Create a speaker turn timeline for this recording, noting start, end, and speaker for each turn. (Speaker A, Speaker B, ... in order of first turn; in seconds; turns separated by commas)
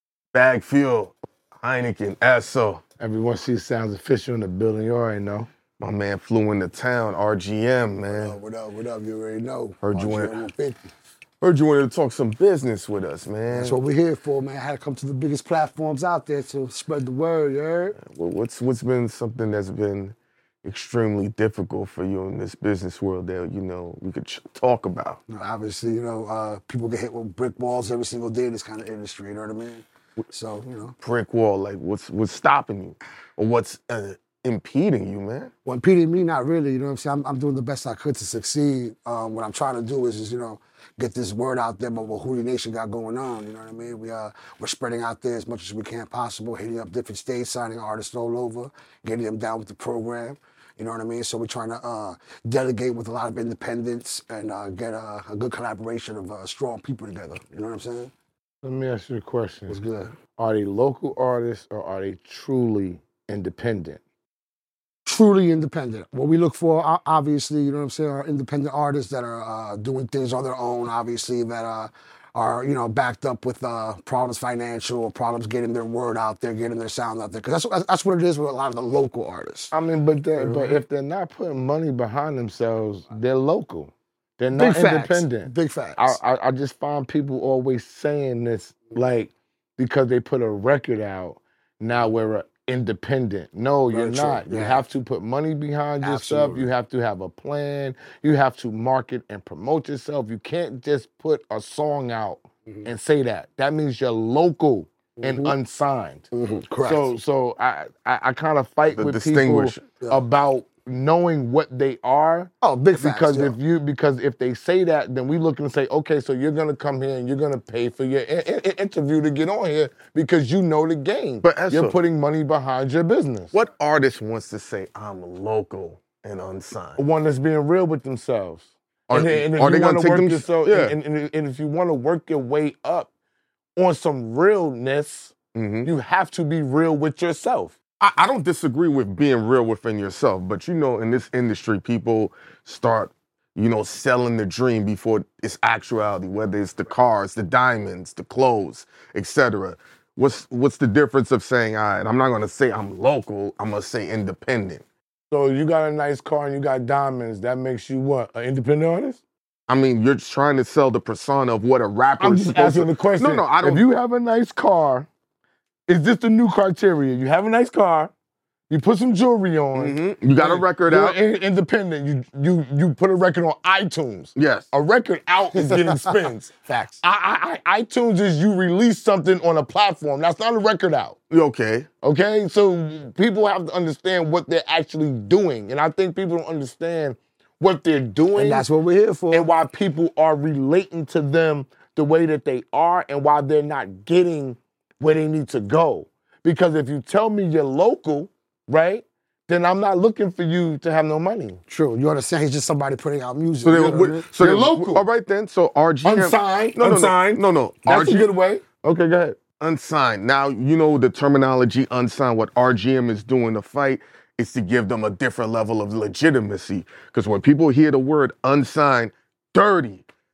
Speaker A: 0.3-2.8, Speaker B: 3.0-5.5, Speaker A: 5.8-8.3, Speaker C: 8.1-10.9, Speaker A: 9.8-10.3, Speaker A: 11.4-13.8, Speaker C: 13.5-18.0, Speaker A: 18.0-25.2, Speaker C: 25.3-30.9, Speaker A: 31.0-35.5, Speaker C: 35.6-58.1, Speaker B: 58.6-59.8, Speaker C: 59.7-60.1, Speaker B: 60.4-64.0, Speaker C: 65.0-79.7, Speaker B: 79.7-106.3, Speaker C: 80.4-80.7, Speaker C: 84.5-86.2, Speaker C: 93.9-94.8, Speaker C: 96.0-96.7, Speaker C: 105.2-105.5, Speaker C: 106.3-107.0, Speaker B: 106.8-123.5, Speaker A: 108.9-109.8, Speaker C: 112.6-113.5, Speaker A: 121.4-122.0, Speaker A: 123.5-127.0, Speaker B: 127.0-133.1, Speaker A: 129.1-130.9, Speaker B: 133.8-137.7, Speaker A: 135.5-135.9, Speaker A: 138.0-154.8, Speaker B: 155.3-159.2, Speaker A: 159.7-163.8, Speaker B: 162.2-165.1, Speaker B: 165.9-168.1, Speaker B: 168.7-181.2, Speaker A: 169.7-171.2, Speaker A: 174.3-174.7, Speaker C: 175.6-177.0, Speaker A: 181.3-181.9, Speaker B: 182.0-188.7, Speaker C: 188.3-189.5, Speaker B: 189.3-201.6, Speaker C: 201.7-204.3, Speaker A: 203.6-208.3, Speaker B: 204.3-205.1, Speaker B: 206.0-209.4, Speaker A: 209.6-220.1